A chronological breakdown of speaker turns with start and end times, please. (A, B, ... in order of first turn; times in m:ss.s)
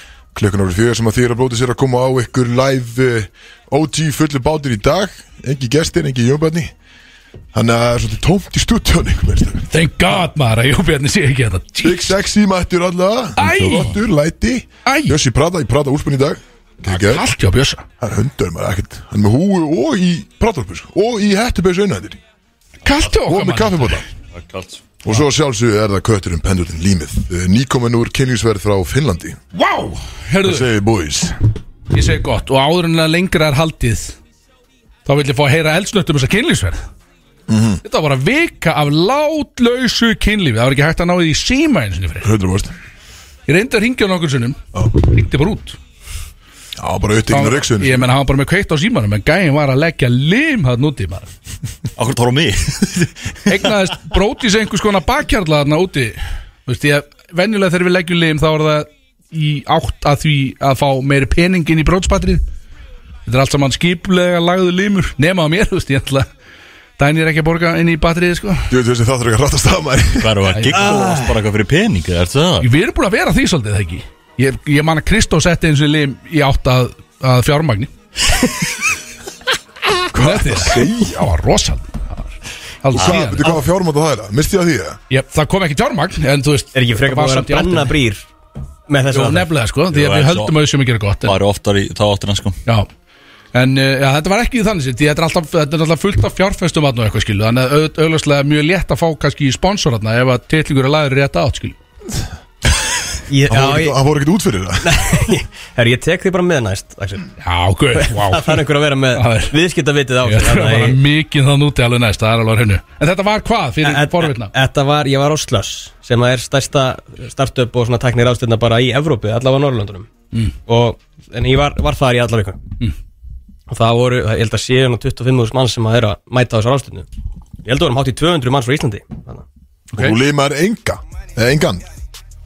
0:00.3-0:06.7 A
0:07.5-0:09.7 A
0:09.7-0:12.2 B
0:11.8-0:17.3 A
0:13.4-0:14.0 B
0:14.9-0:15.2 B
0:16.9-0:17.8 B
0:18.0-0:22.2 A
0:22.8-0:24.0 B
0:23.2-0:24.0 A
0:24.3-0:24.8 C
0:25.0-0:29.4 A
0:29.5-0:30.7 B
0:30.4-0:31.4 A
0:31.9-0:34.2 B
0:35.1-0:36.8 B
0:37.5-0:37.8 A
0:37.8-0:42.3 B
0:42.2-0:42.7 A
0:43.5-0:45.8 B
0:46.8-0:48.1 A
0:47.3-0:51.3 B
0:52.0-0:53.6 C
0:53.5-1:02.4 B
1:03.3-1:06.3 B
1:07.0-1:08.7 B
1:08.7-1:10.4 A
1:10.2-1:12.7 C
1:10.5-1:10.9 B
1:10.8-1:11.3 D
1:12.6-1:17.9 B
1:20.1-1:21.3 A
1:20.2-1:22.3 B
1:22.8-1:23.6 B
1:22.9-1:25.0 A
1:25.1-1:28.0 B
1:26.7-1:28.2 D
1:28.9-1:29.5 D
1:29.1-1:31.4 B
1:29.9-1:30.6 C
1:31.3-1:32.6 C
1:33.5-1:41.8 B
1:43.3-1:44.0 D
1:43.5-1:45.0 A
1:44.8-1:47.3 D
1:47.4-1:49.6 B
1:48.0-1:51.0 D
1:50.2-1:54.5 B
1:53.8-2:00.1 D
2:00.7-2:02.6 D
2:03.7-2:07.1 D
2:07.6-2:09.4 D
2:09.9-2:10.2 B
2:09.9-2:11.9 A